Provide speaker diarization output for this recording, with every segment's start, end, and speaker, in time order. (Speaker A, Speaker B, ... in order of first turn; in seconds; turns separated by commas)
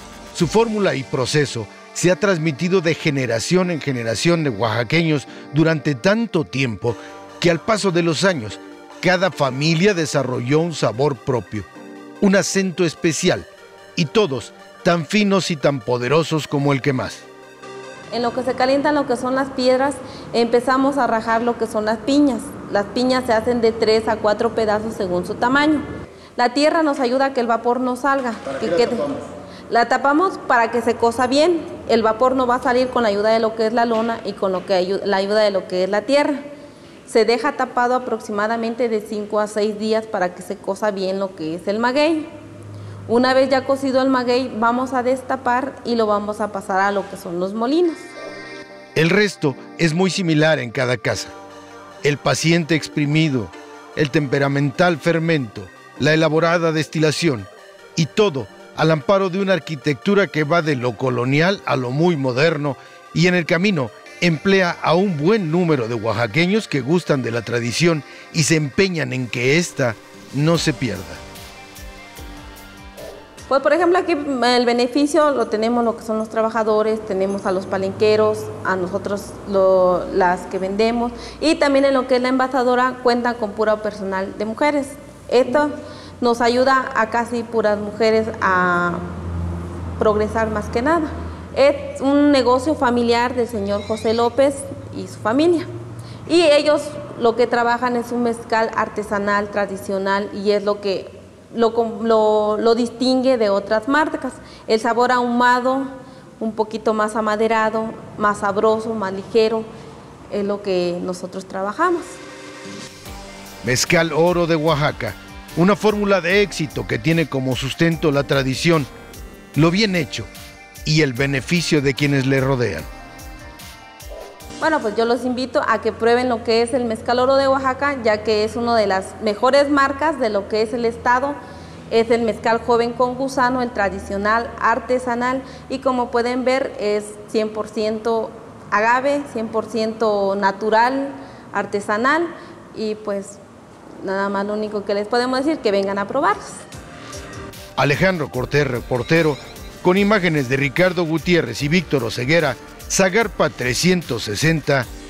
Speaker A: 0.3-11.7, Speaker A: 12.2-17.3, Speaker B: 18.1-25.8, Speaker B: 26.4-36.5, Speaker A: 28.6-29.0, Speaker B: 37.1-42.3, Speaker B: 43.1-48.1, Speaker A: 49.0-51.3, Speaker A: 52.0-71.2, Speaker B: 73.5-89.0, Speaker B: 90.0-95.7, Speaker B: 96.3-109.7, Speaker B: 110.3-112.2, Speaker A: 113.6-118.9, Speaker A: 119.5-120.3, Speaker A: 120.8-122.9, Speaker B: 124.6-131.4, Speaker B: 131.9-143.4, Speaker B: 144.0-146.7, Speaker A: 147.8-154.9